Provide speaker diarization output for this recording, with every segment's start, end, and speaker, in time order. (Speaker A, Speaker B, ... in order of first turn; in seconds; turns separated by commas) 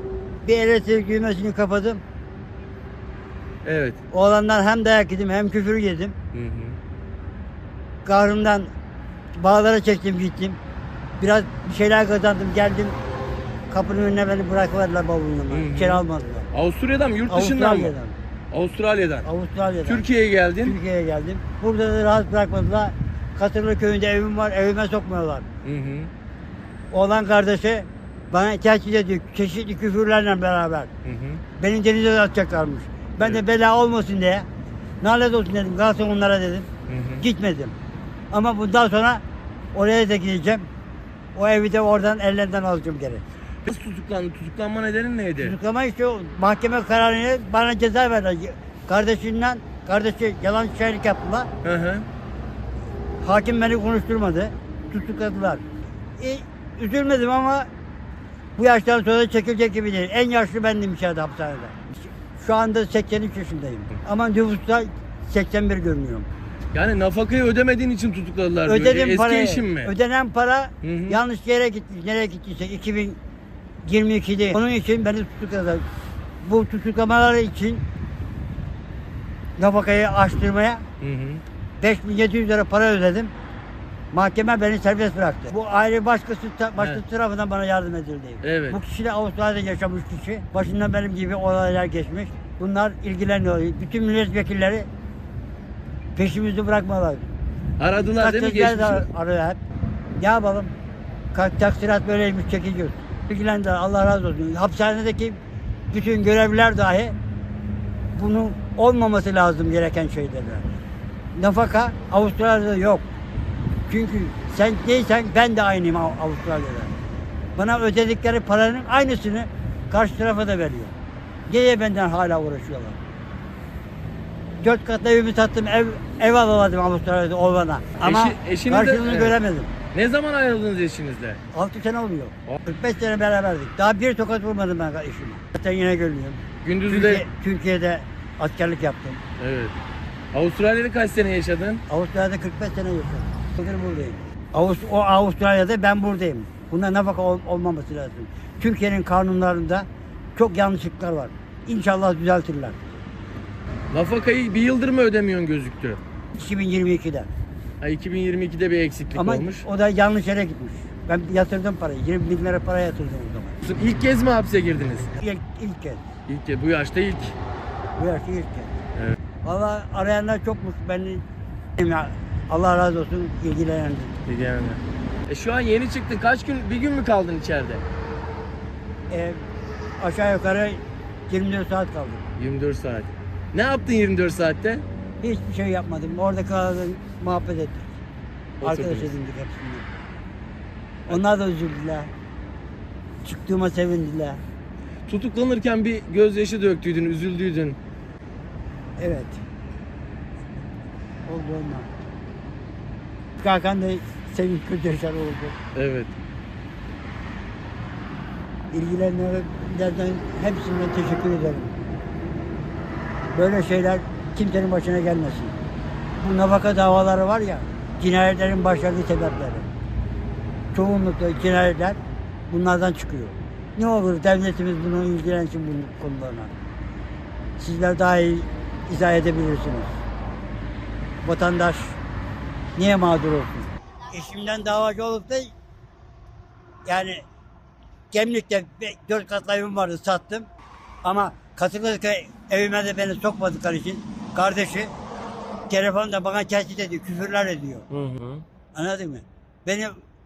Speaker A: 0.4-2.0, Speaker B: 3.6-4.0, Speaker A: 4.1-6.2, Speaker B: 6.3-6.8, Speaker A: 8.1-8.7, Speaker A: 9.4-10.6, Speaker A: 11.2-13.0, Speaker A: 13.7-16.5, Speaker B: 15.5-17.9, Speaker A: 17.3-18.2, Speaker B: 18.5-19.3, Speaker A: 19.2-20.1, Speaker B: 19.9-20.8, Speaker A: 20.6-25.5, Speaker B: 25.6-26.1, Speaker A: 26.9-30.9, Speaker B: 31.1-31.4, Speaker A: 31.6-34.5, Speaker A: 35.0-36.7, Speaker B: 36.9-37.3, Speaker A: 37.2-37.7, Speaker A: 38.3-39.2, Speaker A: 39.7-40.7, Speaker A: 41.4-43.2, Speaker B: 43.6-45.5, Speaker A: 45.4-51.5, Speaker B: 51.6-52.1, Speaker A: 53.2-55.6, Speaker A: 56.2-57.7, Speaker A: 58.6-66.3, Speaker B: 66.7-69.9, Speaker A: 68.7-73.2, Speaker B: 70.8-71.2, Speaker A: 73.8-75.9, Speaker A: 76.4-77.8, Speaker A: 79.6-80.8, Speaker B: 81.0-81.4, Speaker A: 81.8-83.3, Speaker A: 84.1-94.9, Speaker B: 88.4-88.8, Speaker A: 96.2-97.3, Speaker B: 97.8-99.0, Speaker A: 98.0-99.6, Speaker A: 100.2-100.7, Speaker A: 101.3-105.4, Speaker A: 105.9-107.2, Speaker A: 108.2-110.7, Speaker A: 111.3-113.0, Speaker A: 113.9-116.9, Speaker A: 117.6-120.9, Speaker A: 121.5-123.0, Speaker A: 124.6-129.7, Speaker B: 128.0-129.4, Speaker B: 129.9-131.4, Speaker A: 131.5-139.2, Speaker B: 136.6-137.3, Speaker B: 139.4-139.8, Speaker B: 140.3-141.8, Speaker A: 141.9-152.8, Speaker B: 153.9-156.0, Speaker A: 156.3-157.3, Speaker B: 157.8-159.7, Speaker A: 159.2-163.6, Speaker B: 163.6-165.1, Speaker A: 165.2-166.0, Speaker B: 166.3-167.4, Speaker A: 168.0-168.7, Speaker A: 169.4-171.2, Speaker A: 171.8-174.2, Speaker B: 174.3-177.8, Speaker A: 179.1-179.4, Speaker A: 180.0-182.2, Speaker B: 182.4-184.8, Speaker A: 185.2-187.9, Speaker B: 188.6-189.1, Speaker A: 188.6-189.9, Speaker A: 191.1-192.1, Speaker A: 193.2-194.4, Speaker B: 195.1-197.8, Speaker A: 199.0-199.4, Speaker A: 201.3-201.9, Speaker A: 203.4-205.6, Speaker B: 205.8-206.1, Speaker A: 208.7-211.8, Speaker A: 213.3-215.6, Speaker A: 216.2-219.7, Speaker A: 220.7-226.5, Speaker A: 227.6-230.0, Speaker A: 231.2-232.0, Speaker A: 232.8-235.5, Speaker A: 236.9-237.2, Speaker A: 238.1-240.5, Speaker A: 241.0-244.9, Speaker A: 245.7-247.9, Speaker B: 247.9-248.4, Speaker A: 248.8-250.0